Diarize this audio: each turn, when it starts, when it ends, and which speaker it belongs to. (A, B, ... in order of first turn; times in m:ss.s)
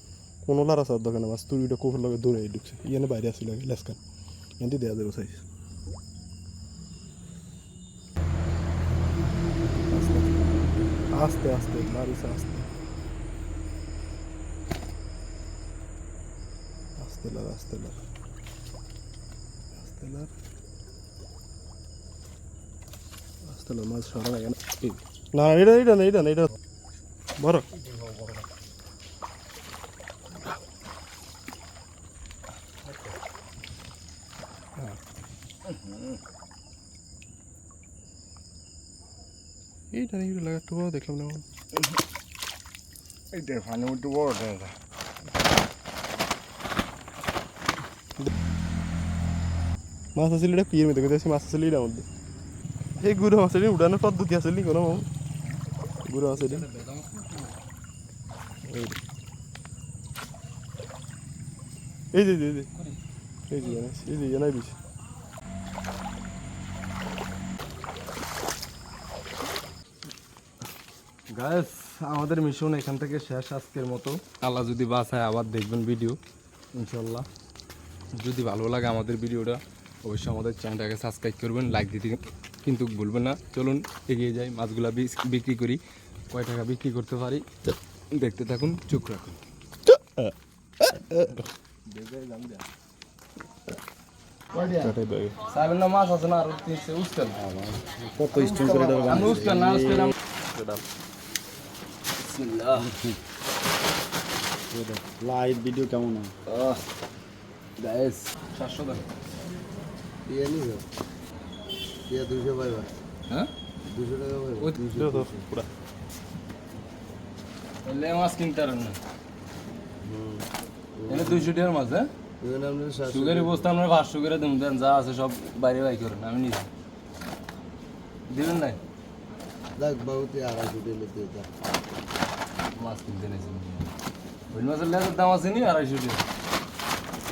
0:00.4-0:04.0 A
0:04.6-0:05.4 A
0:09.6-0:12.7 A
0:17.0-0:18.0 A
0:19.7-0:20.3 A
0:23.4-0:24.6 A
0:25.3-0:26.5 A
0:27.4-0:27.7 A
0:27.8-0:28.4 B
0:32.8-0:33.1 B
0:35.6-0:36.2 B
0:39.9-0:41.4 A
0:43.3-0:44.7 B
0:50.1-0:52.0 A
0:53.0-0:55.1 A
0:56.0-0:56.7 A
0:56.3-0:57.6 B
0:58.6-0:59.0 A
1:02.1-1:02.7 A
1:02.7-1:03.0 B
1:03.5-1:04.8 A
1:11.3-1:16.2 B
1:16.7-1:17.3 B
1:18.2-1:25.8 B
1:26.3-1:27.4 B
1:28.1-1:29.4 B
1:29.8-1:31.5 A
1:31.9-1:32.6 B
1:34.5-1:34.9 B
1:34.8-1:35.4 A
1:35.5-1:37.4 B
1:37.3-1:40.1 C
1:38.3-1:40.1 B
1:40.4-1:40.8 A
1:42.2-1:43.0 B
1:42.8-1:43.1 C
1:44.7-1:46.4 C
1:46.5-1:46.8 B
1:47.8-1:49.0 B
1:50.3-1:50.8 C
1:52.1-1:52.9 C
1:53.9-1:55.5 C
1:54.9-1:55.7 A
1:57.8-1:59.0 B
2:00.0-2:00.4 C
2:01.0-2:01.4 C
2:01.1-2:02.1 B
2:02.4-2:03.6 C
2:03.1-2:06.7 B
2:08.3-2:08.8 B
2:09.8-2:11.5 C
2:12.7-2:13.9 B
2:14.5-2:16.2 B